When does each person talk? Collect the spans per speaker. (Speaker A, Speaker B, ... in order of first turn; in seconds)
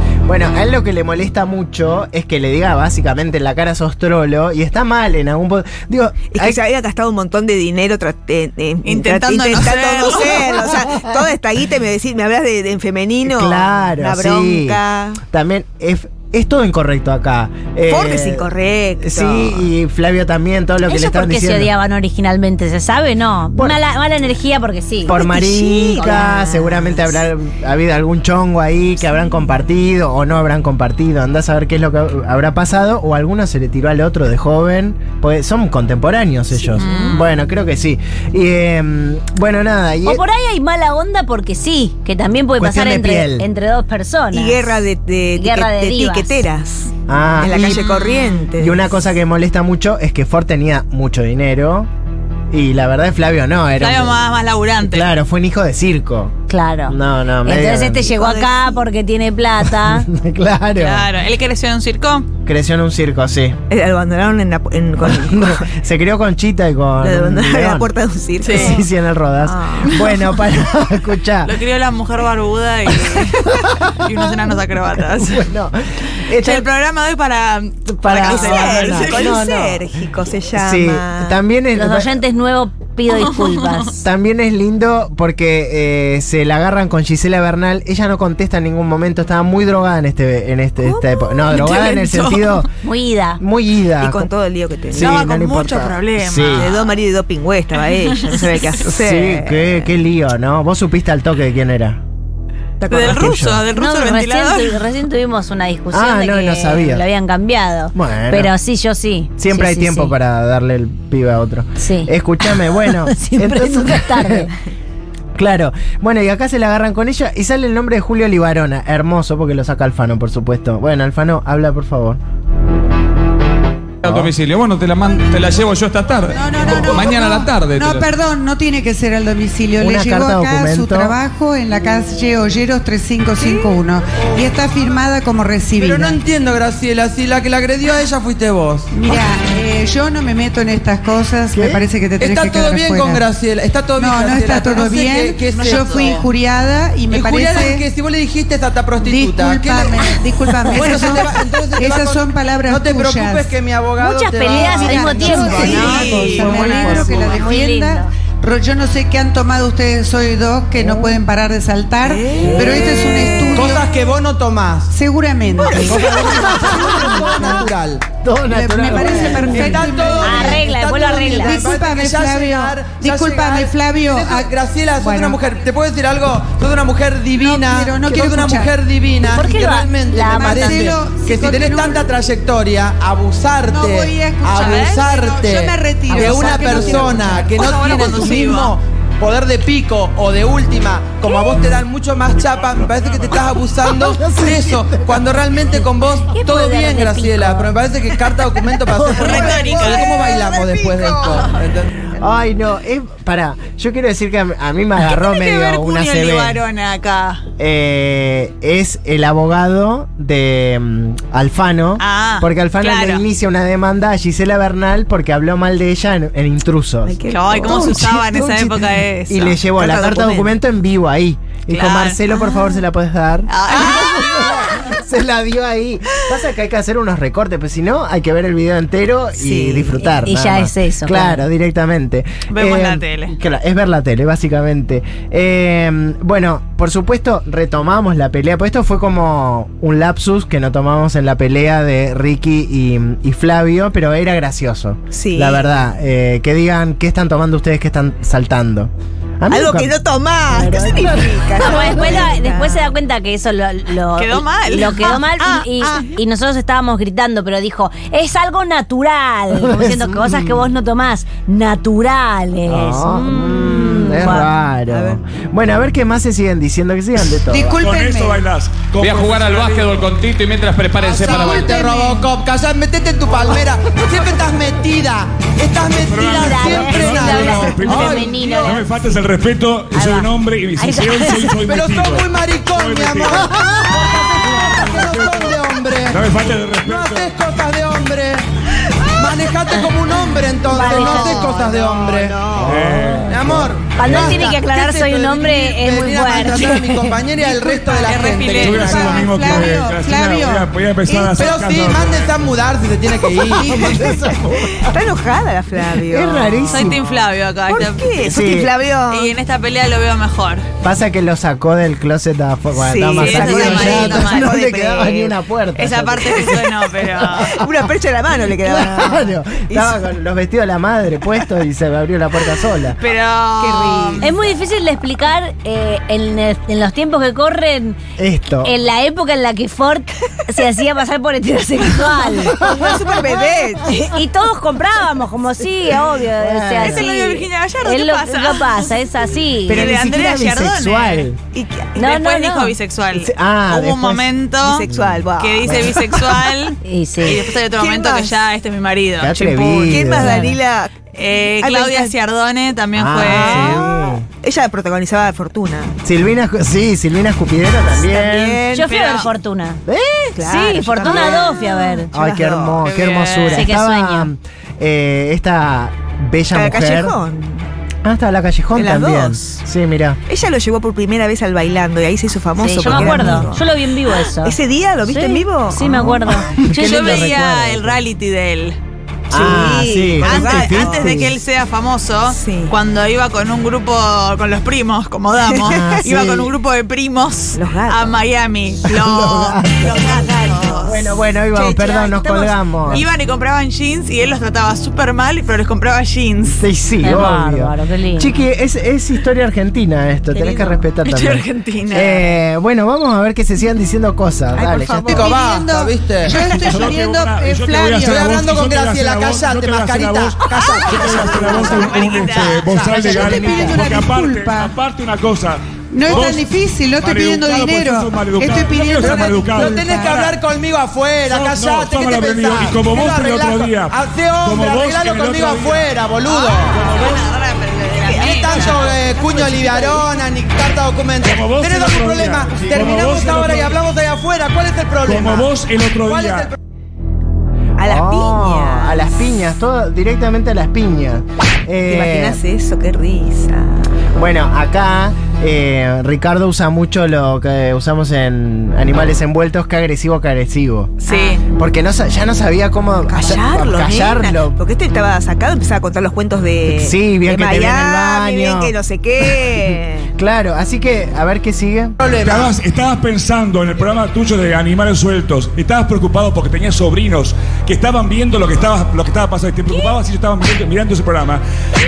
Speaker A: 0.2-6.6, 13.2-18.5, 19.0-21.7, 25.1-40.2, 42.6-43.5, 47.1-47.9, 48.5-51.9, 52.5-54.2, 54.8-58.1, 59.6-61.1, 62.4-63.6, 65.0-67.9, 68.5-71.6, 75.2-76.7, 77.9-79.8, 80.5-82.2, 84.0-92.7, 93.4-94.3, 94.9-96.7, 98.8-102.0, 103.0-103.6, 105.9-107.0, 107.9-108.5, 109.4-114.5, 115.4-122.2, 124.0-124.3, 129.8-131.2, 141.5-141.8, 156.1-157.1, 160.8-161.2, 162.3-163.0, 165.8-167.7, 168.2-169.9, 193.9-195.3, 198.9-199.5, 202.2-206.6, 207.6-249.9, 250.5-252.3, 259.5-260.7, 262.6-267.8, 292.4-293.7, 303.6-305.0, 306.1-307.0, 308.2-308.7, 310.8-317.9, 318.5-323.0, 328.2-328.7, 332.5-334.1, 336.4-337.1, 339.6-341.4, 343.1-345.9, 349.2-350.5, 352.9-354.2, 356.0-358.6, 359.9-360.4, 362.1-367.2, 368.0-370.2, 372.8-373.5, 376.0-378.0, 379.3-381.4, 385.6-386.5, 388.9-393.1, 396.5-405.3, 412.9-413.8, 432.6-432.9, 437.8-442.4, 444.1-450.9, 451.5-454.6, 456.7-462.0
Speaker B: 6.3-15.2, 17.9-19.7, 25.1-26.6, 36.8-37.2, 44.3-48.9, 58.1-58.8, 63.7-65.7, 67.0-68.9, 69.4-70.1, 73.3-73.5, 78.2-81.4, 90.8-91.4, 94.0-95.2, 96.5-100.0, 102.8-103.4, 162.1-163.6, 165.5-167.0, 199.1-201.4, 217.1-218.0, 219.7-220.6, 229.4-230.0, 245.1-245.8, 249.5-252.9, 255.4-256.2, 264.9-265.2, 290.7-292.8, 303.7-306.7, 307.6-309.4, 312.8-315.4, 316.2-316.6, 317.4-320.1, 323.6-324.3, 332.4-333.9, 341.5-342.1, 344.6-346.5, 347.3-348.5, 349.9-352.1, 353.2-356.0, 357.9-358.9, 360.4-362.8, 366.5-367.7, 368.7-369.6, 370.3-376.1, 379.3-381.2, 382.2-382.8, 385.4-386.0, 387.6-388.2, 390.5-390.8, 391.5-393.1, 400.3-400.9, 404.5-405.4, 406.3-406.8, 410.5-411.9, 426.3-427.4, 427.9-430.1, 437.8-439.4, 441.9-444.1, 451.1-451.4, 453.1-460.1
Speaker C: 8.8-10.7, 36.8-37.3, 47.5-48.5, 53.8-55.1, 60.8-62.3, 68.4-68.8, 71.4-75.5, 76.4-79.4, 83.1-83.5, 91.5-92.7, 94.9-96.9, 98.0-98.7, 102.9-104.8, 145.5-146.2, 155.5-157.0, 184.6-185.1, 187.6-188.7, 199.1-200.2, 205.0-207.4, 212.0-213.2, 217.3-219.6, 221.7-222.2, 223.5-224.9, 232.5-233.3, 254.2-255.2, 298.1-298.8, 306.7-308.3, 309.1-310.6, 313.0-314.6, 315.8-317.6, 323.0-324.4, 336.8-338.9, 339.7-341.3, 342.0-344.9, 345.4-350.1, 351.1-353.9, 358.8-359.3, 362.8-363.7, 376.7-378.8, 380.2-391.1, 392.9-396.6, 401.0-402.4, 410.8-412.7, 426.4-428.9, 451.0-451.4
Speaker D: 20.8-25.2, 26.1-27.0, 40.0-44.8, 45.4-46.4, 56.5-60.1, 81.8-84.0, 92.8-93.4, 103.7-110.2, 111.8-112.1, 112.6-114.5, 154.0-158.1, 170.2-171.6, 179.3-181.0, 186.1-187.2, 196.3-197.7, 230.0-231.5, 251.6-264.5, 276.3-279.2, 279.9-281.6, 290.7-291.5, 294.0-296.9, 324.2-328.0, 328.6-332.6, 333.9-339.9, 342.0-342.8, 346.8-347.4, 350.2-350.6, 358.7-359.8, 360.4-362.1, 363.5-364.3, 372.6-376.5, 397.0-398.3
Speaker E: 124.0-128.1, 268.9-271.8
Speaker F: 126.3-136.2, 138.9-143.3, 144.0-147.9, 149.0-153.6, 154.6-163.9, 164.9-166.6, 167.2-167.6, 168.5-170.5, 171.2-175.4, 177.3-178.8, 180.3-182.1, 183.7-188.1, 267.5-268.5, 271.8-272.3, 297.4-301.5, 303.5-303.9, 405.1-408.3, 412.9-414.8, 415.9-420.1
Speaker G: 126.7-127.1, 133.4-133.8, 134.4-134.8, 135.8-139.2, 142.2-146.3, 147.1-156.2, 163.5-164.9, 165.9-168.1, 169.1-202.1, 271.0-278.8, 281.6-288.4, 289.1-292.6, 293.2-299.6, 301.3-303.7, 405.1-406.4, 408.0-413.1, 418.9-427.0, 428.2-436.6, 462.0-462.5
Speaker H: 267.8-270.1, 276.1-283.5, 284.6-287.4, 292.6-293.4, 294.1-294.4, 298.6-302.4, 406.6-420.3, 421.3-425.9, 431.2-433.8, 435.0-436.5, 462.2-471.4